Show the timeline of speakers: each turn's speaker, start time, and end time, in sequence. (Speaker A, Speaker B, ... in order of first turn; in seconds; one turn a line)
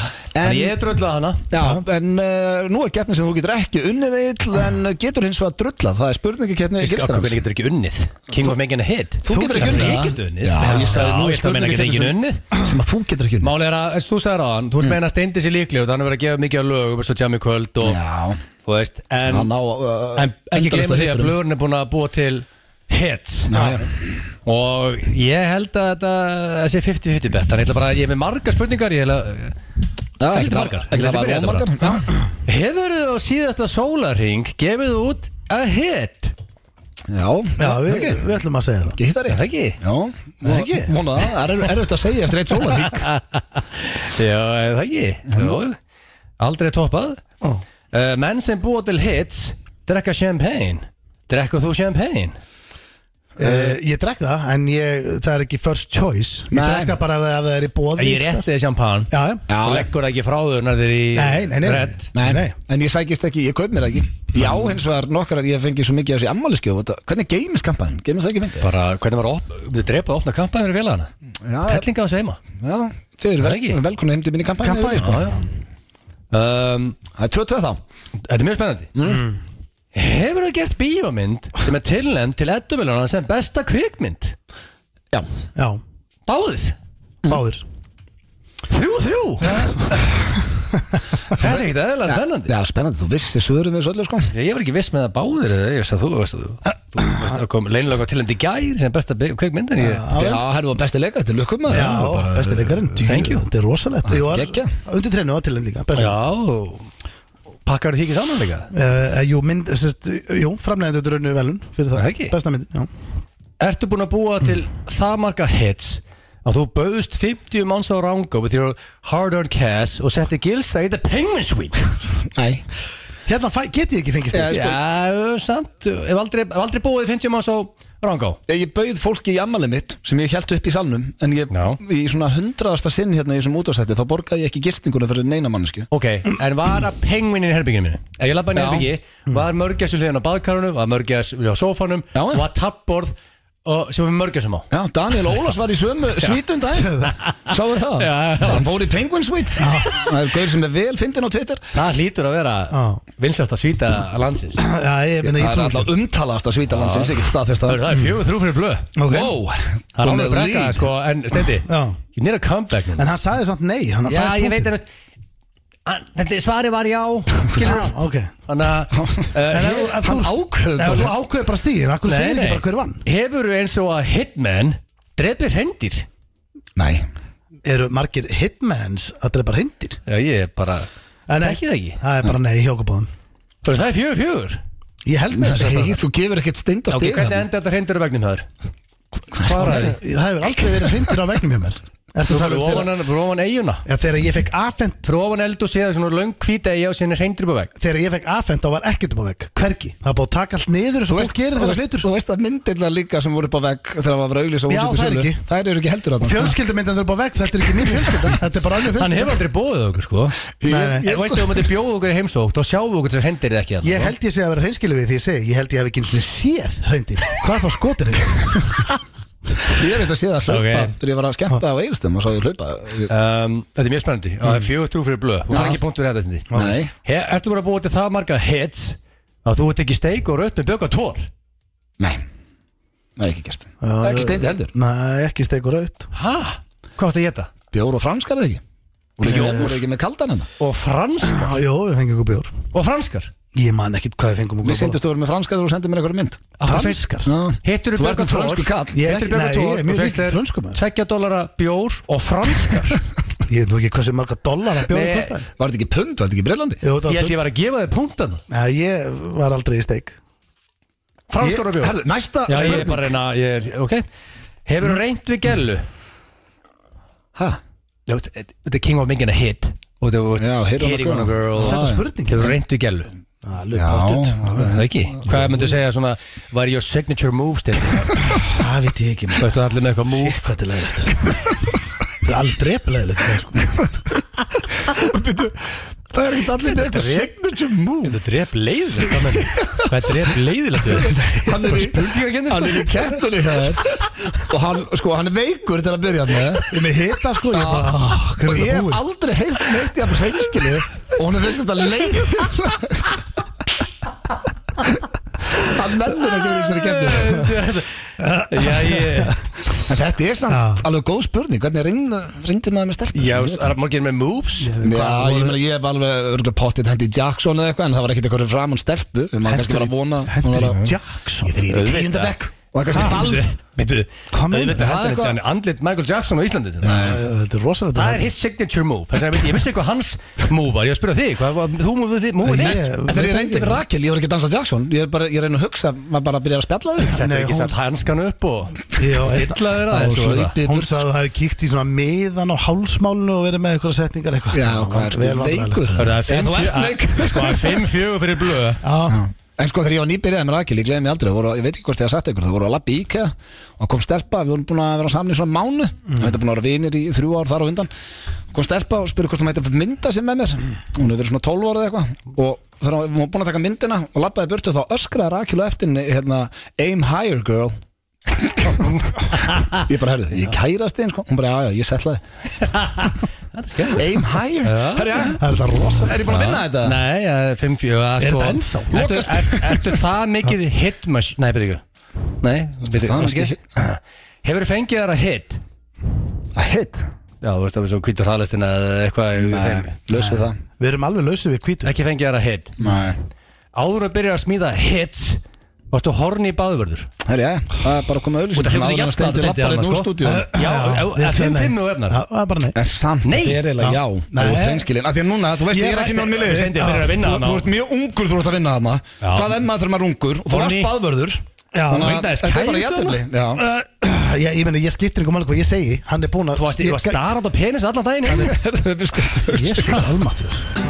Speaker A: 0.3-0.8
Speaker B: 0.4-1.4
Speaker A: 1.5-7.4
Speaker C: 1.6-1.8
Speaker B: 6.8-12.5
Speaker A: 9.2-13.5
Speaker C: 9.3-10.1
Speaker C: 10.6-11.0
Speaker B: 13.4-18.0
Speaker A: 17.8-18.4
Speaker B: 18.6-19.5
Speaker A: 19.3-21.4
Speaker B: 20.1-23.5
Speaker A: 23.5-23.9
Speaker C: 23.5-23.8
Speaker B: 24.5-29.6
Speaker A: 30.2-32.1
Speaker B: 30.3-31.9
Speaker B: 32.5-36.4
Speaker A: 37.1-38.3
Speaker C: 37.6-39.0
Speaker A: 39.0-43.1
Speaker B: 39.3-39.8
Speaker C: 40.4-41.0
Speaker B: 42.8-45.8
Speaker A: 45.3-45.6
Speaker B: 46.4-47.2
Speaker B: 47.9-52.4
Speaker C: 53.4-58.5
Speaker A: 56.5-57.0
Speaker B: 58.0-62.1
Speaker C: 59.1-59.4
Speaker A: 59.5-59.9
Speaker C: 61.1-62.5
Speaker A: 62.1-68.7
Speaker B: 68.6-71.1
Speaker A: 71.5-71.9
Speaker B: 71.7-72.4
Speaker A: 72.6-75.2
Speaker B: 73.4-73.8
Speaker C: 74.6-75.4
Speaker B: 75.0-75.4
Speaker B: 76.3-77.0
Speaker A: 77.2-77.8
Speaker B: 78.3-78.9
Speaker A: 79.0-79.3
Speaker C: 79.1-79.3
Speaker B: 79.9-84.3
Speaker C: 85.6-85.8
Speaker B: 86.3-86.8
Speaker C: 87.3-87.6
Speaker B: 88.7-89.9
Speaker B: 91.3-92.5
Speaker A: 91.4-94.3
Speaker B: 94.3-100.1
Speaker C: 99.8-100.4
Speaker A: 100.2-102.0
Speaker C: 101.7-106.2
Speaker B: 101.7-103.5
Speaker A: 104.0-104.7
Speaker B: 105.9-106.9
Speaker B: 107.7-108.7
Speaker C: 108.7-112.9
Speaker B: 111.9-112.3
Speaker B: 113.6-121.9
Speaker A: 122.3-122.6
Speaker C: 123.3-124.8
Speaker A: 124.3-124.8
Speaker B: 124.5-128.4
Speaker A: 128.5-135.9
Speaker B: 131.5-131.8
Speaker B: 135.9-144.7
Speaker A: 138.5-138.9
Speaker A: 142.1-142.4
Speaker A: 144.7-151.7
Speaker C: 146.8-147.1
Speaker B: 147.5-148.7
Speaker C: 149.6-150.1
Speaker B: 151.7-154.6
Speaker C: 152.7-153.0
Speaker C: 154.6-155.9
Speaker A: 155.2-158.0
Speaker B: 156.7-157.1
Speaker B: 157.7-158.9
Speaker C: 159.0-159.3
Speaker A: 159.1-160.9
Speaker B: 160.0-163.1
Speaker C: 161.7-162.0
Speaker C: 163.0-164.7
Speaker B: 164.1-164.9
Speaker B: 165.9-167.9
Speaker A: 167.5-167.8
Speaker C: 167.6-168.3
Speaker B: 168.5-170.2
Speaker A: 168.9-169.3
Speaker C: 169.5-173.0
Speaker A: 169.9-171.1
Speaker B: 172.1-176.1
Speaker A: 176.8-177.1
Speaker C: 177.7-180.0
Speaker B: 180.1-182.0
Speaker C: 181.3-183.1
Speaker B: 183.6-184.6
Speaker C: 185.1-186.0
Speaker A: 185.3-187.5
Speaker B: 186.9-188.5
Speaker A: 189.3-190.0
Speaker C: 189.4-193.0
Speaker B: 189.4-190.0
Speaker A: 190.6-190.9
Speaker B: 192.3-193.8
Speaker C: 193.9-195.1
Speaker B: 195.0-197.7
Speaker C: 197.8-202.1
Speaker A: 201.1-206.6
Speaker C: 204.7-205.4
Speaker C: 206.2-209.4
Speaker B: 208.9-210.5
Speaker A: 210.6-211.7
Speaker C: 210.7-211.1
Speaker B: 211.0-214.2
Speaker C: 213.8-218.9
Speaker A: 219.7-223.1
Speaker B: 220.5-220.9
Speaker B: 223.1-226.5
Speaker C: 224.4-224.7
Speaker A: 225.5-225.8
Speaker C: 226.5-226.8
Speaker A: 226.5-226.9
Speaker B: 227.0-231.3
Speaker A: 233.2-234.7
Speaker C: 233.8-236.1
Speaker B: 236.1-237.5
Speaker A: 237.7-238.6
Speaker A: 239.2-240.5
Speaker B: 239.2-239.8
Speaker C: 239.2-239.7
Speaker B: 240.6-241.6
Speaker C: 241.2-242.5
Speaker B: 242.7-243.3
Speaker C: 243.5-245.0
Speaker A: 244.6-249.0
Speaker B: 246.6-247.0
Speaker C: 246.6-247.3
Speaker B: 247.6-253.0
Speaker C: 248.9-250.8
Speaker C: 253.5-255.5
Speaker B: 254.9-255.4
Speaker A: 255.6-256.8
Speaker C: 256.8-257.4
Speaker B: 257.1-258.4
Speaker C: 258.5-260.2
Speaker B: 261.3-264.0
Speaker C: 261.4-261.7
Speaker A: 261.8-263.1
Speaker C: 262.6-262.9
Speaker B: 264.7-265.9
Speaker B: 268.1-273.1
Speaker A: 270.4-272.0
Speaker C: 271.6-272.5
Speaker C: 273.4-274.8
Speaker A: 273.7-275.7
Speaker B: 274.7-278.1
Speaker C: 278.5-281.3
Speaker B: 279.4-280.5
Speaker C: 282.2-283.7
Speaker A: 284.9-288.2
Speaker B: 286.6-287.3
Speaker B: 288.0-293.0
Speaker A: 289.4-289.9
Speaker C: 291.1-292.1
Speaker A: 291.1-296.7
Speaker C: 296.6-299.1
Speaker A: 297.5-303.2
Speaker C: 302.2-302.5
Speaker A: 305.6-307.5
Speaker B: 306.7-307.9
Speaker C: 308.2-309.6
Speaker B: 308.5-309.4
Speaker A: 309.8-313.7
Speaker C: 310.5-310.9
Speaker B: 313.1-314.8
Speaker C: 314.6-315.6
Speaker A: 314.8-320.9
Speaker C: 319.5-321.5
Speaker A: 321.4-323.4
Speaker B: 321.6-322.4
Speaker B: 322.9-327.2
Speaker C: 322.9-323.2
Speaker C: 324.3-324.9
Speaker A: 324.8-325.4
Speaker A: 326.8-327.2
Speaker C: 326.9-328.3
Speaker B: 327.9-332.9
Speaker C: 332.4-333.8
Speaker A: 332.7-337.2
Speaker B: 337.0-340.5
Speaker C: 337.1-337.8
Speaker C: 339.0-346.1
Speaker A: 340.0-340.9
Speaker A: 344.5-347.8
Speaker B: 346.0-348.8
Speaker C: 348.8-349.2
Speaker A: 349.1-357.9
Speaker A: 358.5-367.8
Speaker A: 368.3-368.9
Speaker B: 368.9-369.8
Speaker A: 369.7-372.2
Speaker B: 372.6-375.2
Speaker A: 373.9-375.4
Speaker C: 375.3-376.2
Speaker A: 376.0-377.0
Speaker B: 376.3-381.8
Speaker C: 378.2-379.0
Speaker A: 378.9-380.0
Speaker B: 382.4-385.6
Speaker A: 382.9-383.6
Speaker A: 386.6-387.1
Speaker B: 387.4-389.9
Speaker A: 389.4-390.6
Speaker C: 390.2-391.9
Speaker B: 391.8-392.8
Speaker A: 392.8-393.2
Speaker B: 393.8-397.1
Speaker A: 397.2-400.5
Speaker B: 398.5-402.2
Speaker C: 400.2-402.8
Speaker A: 402.8-413.6
Speaker B: 403.2-403.7
Speaker C: 403.8-404.9
Speaker C: 405.7-406.1
Speaker B: 405.7-407.7
Speaker C: 406.8-407.2
Speaker B: 409.2-409.5
Speaker B: 410.5-410.9
Speaker C: 411.7-412.2
Speaker B: 411.9-413.2
Speaker C: 413.6-417.2
Speaker B: 416.6-418.6
Speaker A: 418.3-420.1
Speaker C: 419.5-420.7